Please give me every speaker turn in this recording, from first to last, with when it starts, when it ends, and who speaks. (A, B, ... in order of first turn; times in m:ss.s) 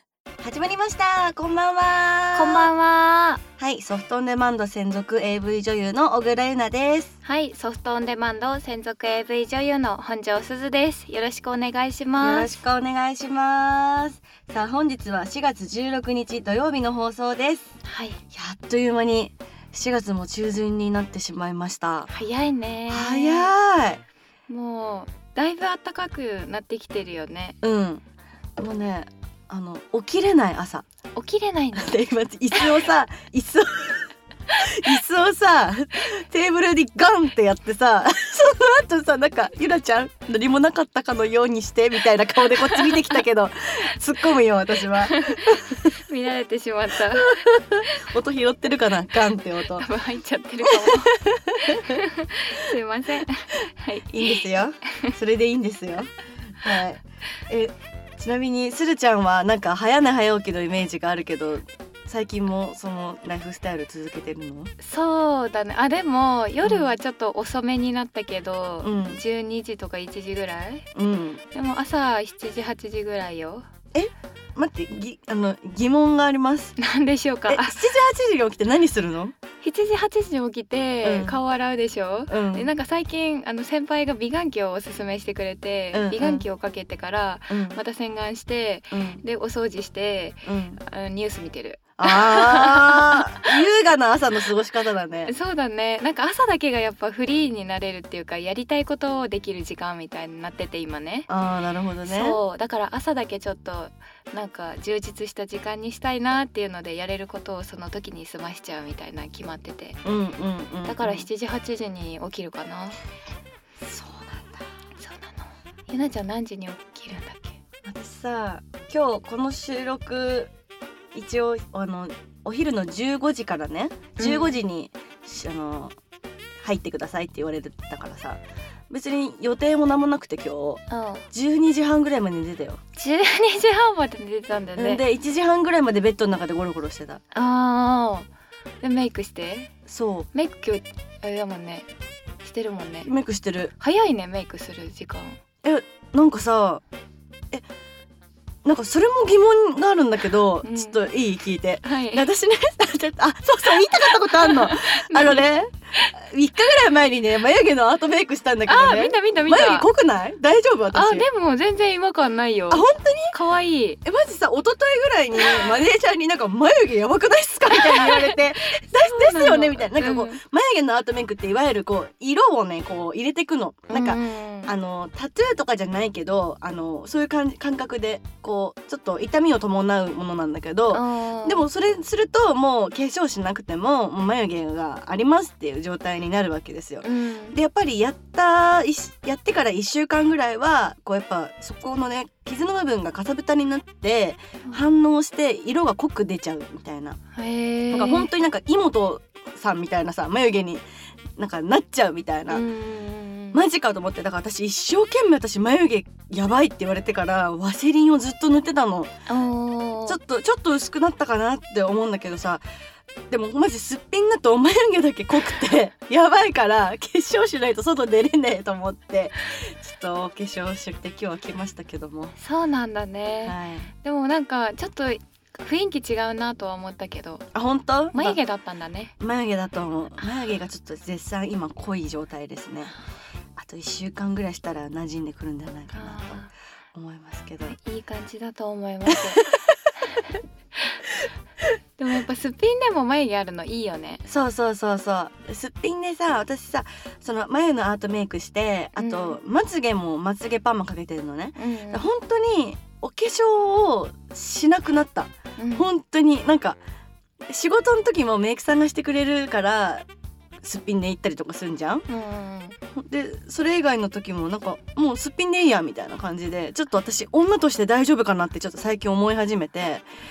0:00.4-0:02.7 A
0:02.3-0:03.4 B
0:03.6-0:07.2 A
0:07.2-0:12.5 B
0:12.2-0:17.7 A
0:17.8-0:18.2 B
0:18.3-0:22.1 A
0:22.1-0:23.5 B
0:22.9-0:24.0 A
0:24.5-0:27.6 B
0:27.6-0:28.0 A
0:28.6-0:30.8 A
0:31.2-0:32.0 B
0:31.7-0:46.0 A
0:42.7-0:43.0 B
0:45.0-0:48.1 B
0:46.9-0:49.8 A
0:49.7-0:55.1 B
0:50.6-0:52.0 A
0:54.1-1:04.7 A
1:04.8-1:10.9 B
1:06.6-1:06.9 A
1:08.8-1:09.2 A
1:10.9-1:11.4 A
1:11.5-1:13.7 B
1:13.9-1:16.8 A
1:16.8-1:17.8 B
1:17.5-1:19.3 A
1:19.6-1:33.6 B
1:21.0-1:21.4 A
1:22.3-1:22.7 A
1:25.9-1:26.4 A
1:27.5-1:27.8 A
1:28.9-1:29.2 A
1:30.4-1:30.8 A
1:32.0-1:35.3 A
1:35.3-1:41.3 B
1:41.3-1:42.4 A
1:42.0-1:50.0 B
1:50.0-1:51.3 A
1:50.8-1:53.0 B
1:53.8-1:54.7 A
1:55.0-1:57.6 B
1:57.8-2:00.5 A
2:01.1-2:06.0 A
2:04.2-2:04.6 B
2:06.6-2:12.8 A
2:10.9-2:11.3 B
2:13.0-2:15.0 B
2:14.8-2:17.2 A
2:17.3-2:18.3 B
2:18.8-2:19.7 B
2:19.8-2:20.3 A
2:20.3-2:21.9 B
2:22.4-2:23.1 B
2:23.0-2:23.7 A
2:23.8-2:25.4 B
2:25.6-2:26.8 A
2:28.6-2:41.3 A
2:30.6-2:31.0 B
2:31.8-2:32.3 B
2:33.6-2:36.1 B
2:38.7-2:39.9 B
2:40.9-2:44.0 B
2:42.7-2:43.3 A
2:44.0-3:17.2 A
2:45.4-2:45.7 B
2:47.7-2:48.4 B
2:49.0-2:50.4 B
2:53.9-2:54.7 B
3:00.9-3:01.6 B
3:07.0-3:07.6 B
3:17.3-3:18.3 B
3:17.9-3:20.8 A
3:21.4-3:22.6 A
3:22.5-3:23.6 B
3:23.5-3:29.1 A
3:29.3-3:30.2 B
3:30.0-3:32.6 A
3:33.3-3:42.3 A
3:42.4-3:47.5 B
3:43.4-3:43.9 A
3:47.5-3:48.4 A
3:48.1-3:49.1 B
3:49.2-3:53.0 A
3:53.6-3:57.8 A
3:55.9-3:56.5 B
3:57.6-3:59.4 B
3:59.1-3:59.7 A
4:00.0-4:01.0 B
4:02.0-4:04.2 B
4:04.2-4:16.8 A
4:09.0-4:09.4 B
4:11.6-4:12.1 B
4:15.6-4:15.9 B
4:17.5-4:20.1 A
4:20.6-4:22.1 A
4:22.1-4:22.8 B
4:22.9-4:30.0 A